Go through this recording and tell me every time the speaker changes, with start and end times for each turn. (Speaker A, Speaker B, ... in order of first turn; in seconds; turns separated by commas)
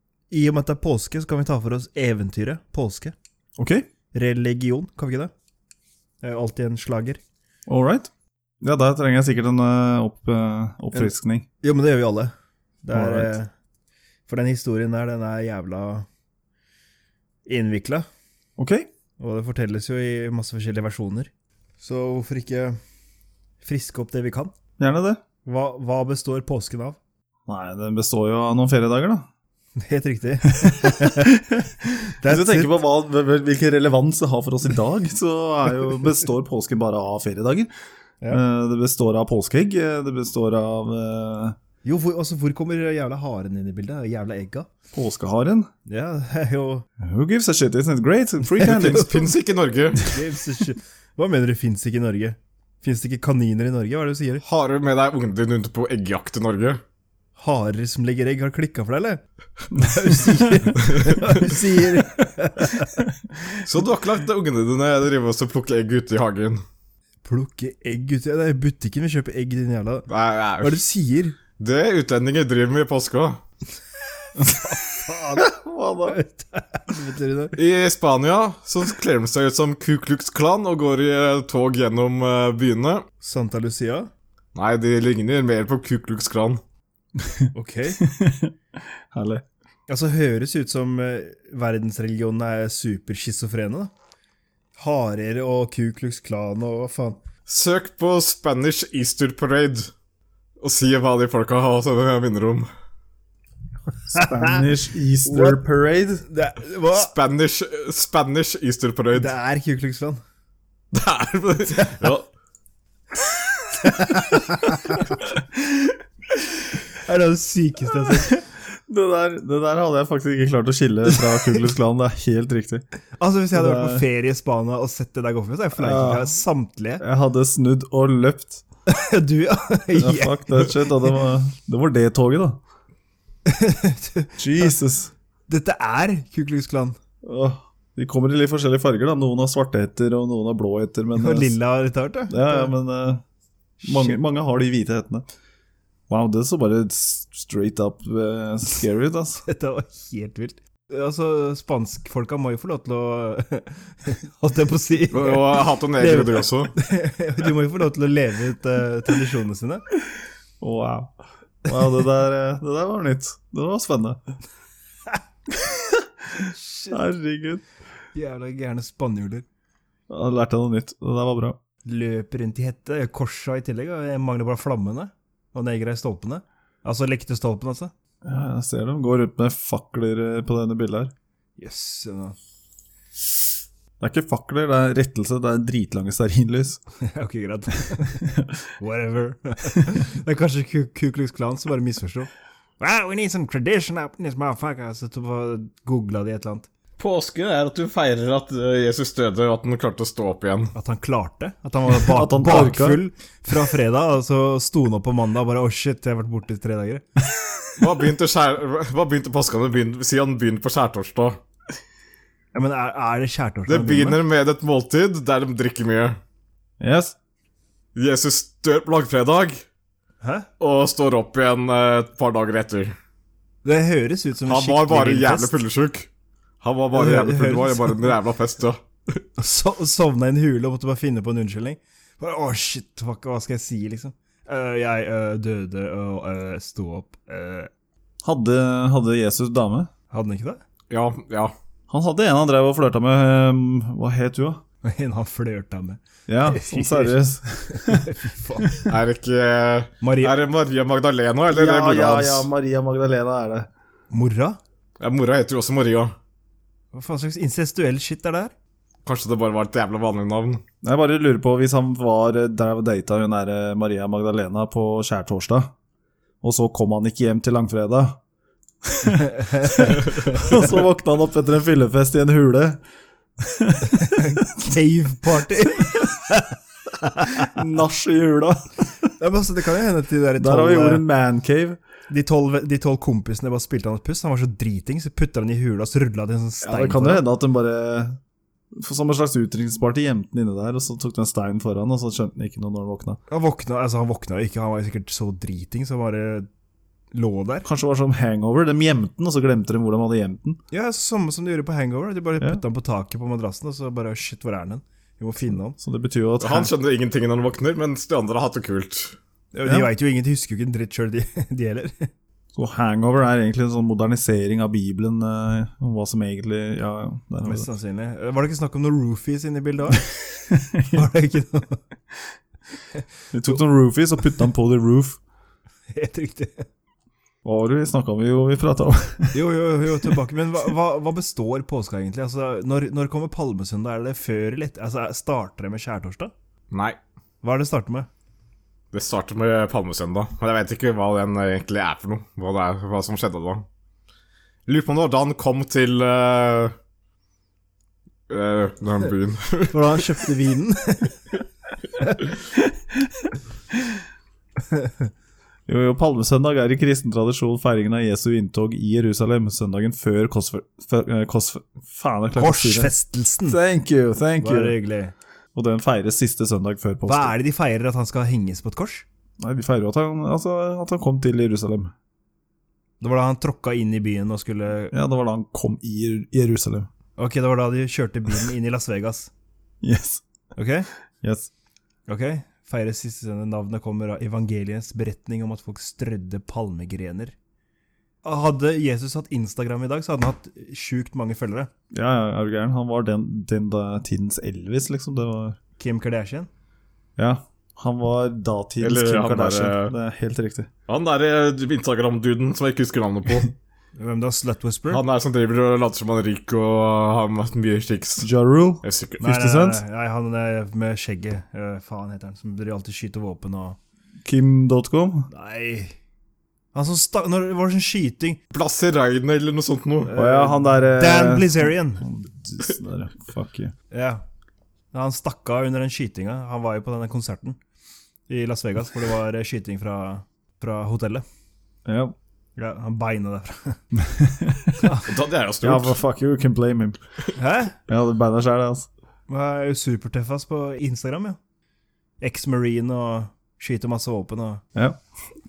Speaker A: 0.3-3.1, Speaker B: 3.6-3.9, Speaker A: 4.1-5.3, Speaker A: 6.2-7.2, Speaker B: 7.7-8.1, Speaker B: 8.6-11.4, Speaker A: 10.9-13.5, Speaker B: 12.9-13.3, Speaker A: 14.3-16.1, Speaker A: 17.4-18.1, Speaker B: 18.6-18.9, Speaker A: 19.2-21.3, Speaker A: 21.8-22.8, Speaker A: 23.6-24.5, Speaker B: 24.8-25.2, Speaker A: 25.4-27.0, Speaker B: 27.5-29.3, Speaker A: 29.8-31.4, Speaker B: 30.6-37.7, Speaker A: 32.2-32.7, Speaker B: 38.3-41.5, Speaker A: 41.8-44.7, Speaker B: 44.9-45.7, Speaker A: 45.9-46.9, Speaker B: 47.0-49.2, Speaker A: 48.6-49.3, Speaker C: 48.6-50.0, Speaker A: 50.0-54.4, Speaker C: 54.4-56.8, Speaker A: 57.4-59.2, Speaker B: 59.7-60.0, Speaker A: 59.7-63.0, Speaker C: 60.8-61.6, Speaker C: 63.6-66.6, Speaker A: 67.2-70.1, Speaker C: 70.1-70.8, Speaker A: 70.6-71.3, Speaker C: 71.6-73.4, Speaker A: 74.4-75.5, Speaker B: 75.3-76.2, Speaker A: 76.1-77.5, Speaker C: 77.5-83.0, Speaker A: 83.2-84.1, Speaker C: 84.5-86.6, Speaker B: 87.2-88.5, Speaker A: 87.5-88.0, Speaker B: 89.1-89.4, Speaker A: 89.9-93.9, Speaker A: 94.8-97.2, Speaker C: 97.5-99.9, Speaker C: 100.6-102.7, Speaker B: 104.1-106.2, Speaker A: 104.1-104.6, Speaker A: 105.2-105.6, Speaker A: 106.3-107.1, Speaker C: 106.9-109.3, Speaker A: 109.1-110.2, Speaker C: 110.9-112.2, Speaker A: 111.7-112.1, Speaker A: 113.8-115.0, Speaker A: 117.0-118.4, Speaker B: 118.3-122.8, Speaker A: 123.2-127.0, Speaker B: 123.5-124.0, Speaker B: 125.8-126.3, Speaker B: 127.0-128.6, Speaker A: 128.9-130.9, Speaker B: 129.9-132.6, Speaker A: 133.4-134.3, Speaker B: 134.4-135.1, Speaker A: 135.5-137.0, Speaker B: 137.2-141.5, Speaker A: 141.2-142.7, Speaker B: 142.3-143.2, Speaker A: 143.8-144.2, Speaker B: 143.8-145.2, Speaker B: 146.1-149.4, Speaker A: 149.4-159.8, Speaker C: 155.1-156.7, Speaker B: 160.6-161.1, Speaker B: 161.6-164.2, Speaker B: 165.5-167.6, Speaker A: 166.5-167.0, Speaker A: 168.1-169.4, Speaker B: 170.1-171.6, Speaker A: 171.8-177.9, Speaker B: 178.2-181.1, Speaker A: 181.6-182.4, Speaker B: 184.0-186.8, Speaker A: 187.0-188.2, Speaker B: 188.2-188.6, Speaker A: 188.8-192.3, Speaker A: 192.8-196.7, Speaker C: 197.0-200.7, Speaker A: 200.7-207.0, Speaker B: 201.9-203.0, Speaker C: 207.8-211.4, Speaker A: 212.5-214.2, Speaker C: 213.7-216.2, Speaker B: 216.8-217.2, Speaker C: 217.9-219.6, Speaker A: 220.2-220.5, Speaker C: 220.6-222.9, Speaker A: 223.6-225.6, Speaker C: 224.4-226.1, Speaker C: 226.6-229.2, Speaker A: 226.9-228.1, Speaker A: 229.4-237.7, Speaker B: 238.2-239.9, Speaker A: 240.1-240.6, Speaker C: 240.9-241.5, Speaker B: 241.9-244.6, Speaker A: 244.8-247.2, Speaker B: 246.3-248.1, Speaker A: 247.7-248.9, Speaker C: 248.9-252.5, Speaker A: 250.0-250.3, Speaker B: 251.5-253.7, Speaker A: 254.1-254.6, Speaker C: 255.0-256.1, Speaker A: 256.9-258.5, Speaker C: 259.0-260.6, Speaker B: 260.8-265.7, Speaker B: 266.4-268.2, Speaker B: 268.8-272.8, Speaker A: 269.4-270.5, Speaker B: 273.4-274.4, Speaker A: 274.0-277.5, Speaker B: 277.4-279.1, Speaker A: 279.2-281.0, Speaker B: 280.4-281.8, Speaker A: 282.1-287.2, Speaker B: 286.6-288.2, Speaker B: 288.7-293.2, Speaker A: 293.3-296.5, Speaker A: 297.1-297.6, Speaker B: 297.6-300.6, Speaker A: 300.7-305.8, Speaker B: 305.8-306.7, Speaker C: 306.4-309.2, Speaker A: 309.5-312.1, Speaker B: 312.5-317.7, Speaker A: 317.4-320.1, Speaker B: 320.5-321.0, Speaker A: 320.9-321.8, Speaker B: 323.3-325.2, Speaker A: 325.9-326.7, Speaker B: 327.4-329.4, Speaker A: 329.3-336.3, Speaker C: 336.7-337.0, Speaker A: 337.4-338.1, Speaker C: 338.9-343.6, Speaker C: 344.7-346.7, Speaker C: 348.3-350.2, Speaker A: 349.7-351.4, Speaker B: 355.7-362.9, Speaker A: 362.3-363.6, Speaker B: 363.4-364.8, Speaker A: 364.4-365.1, Speaker B: 365.5-367.3, Speaker A: 367.1-369.0, Speaker B: 369.4-371.9, Speaker A: 373.0-374.9, Speaker B: 374.9-376.9, Speaker A: 377.2-379.3, Speaker B: 379.8-380.2, Speaker A: 380.6-380.9, Speaker B: 381.2-381.5, Speaker A: 382.1-387.3, Speaker A: 388.2-391.7, Speaker B: 391.9-395.6, Speaker A: 395.8-396.5, Speaker B: 397.2-400.7, Speaker C: 398.8-399.9, Speaker C: 400.9-403.5, Speaker A: 403.9-405.0, Speaker C: 404.9-408.3, Speaker B: 408.2-409.8, Speaker C: 408.8-409.2, Speaker A: 409.2-413.8, Speaker B: 414.2-415.3, Speaker A: 415.3-415.9, Speaker A: 416.7-418.4, Speaker C: 418.5-420.1, Speaker A: 420.1-422.0, Speaker B: 420.1-423.7, Speaker A: 423.9-424.2, Speaker A: 424.9-427.6, Speaker A: 428.3-431.2, Speaker B: 431.9-432.1, Speaker A: 432.6-433.8, Speaker B: 433.9-434.8, Speaker A: 434.8-435.1, Speaker C: 435.1-436.0, Speaker B: 435.6-437.0, Speaker A: 437.4-437.8, Speaker B: 437.9-438.9, Speaker A: 439.3-441.4, Speaker A: 442.2-444.6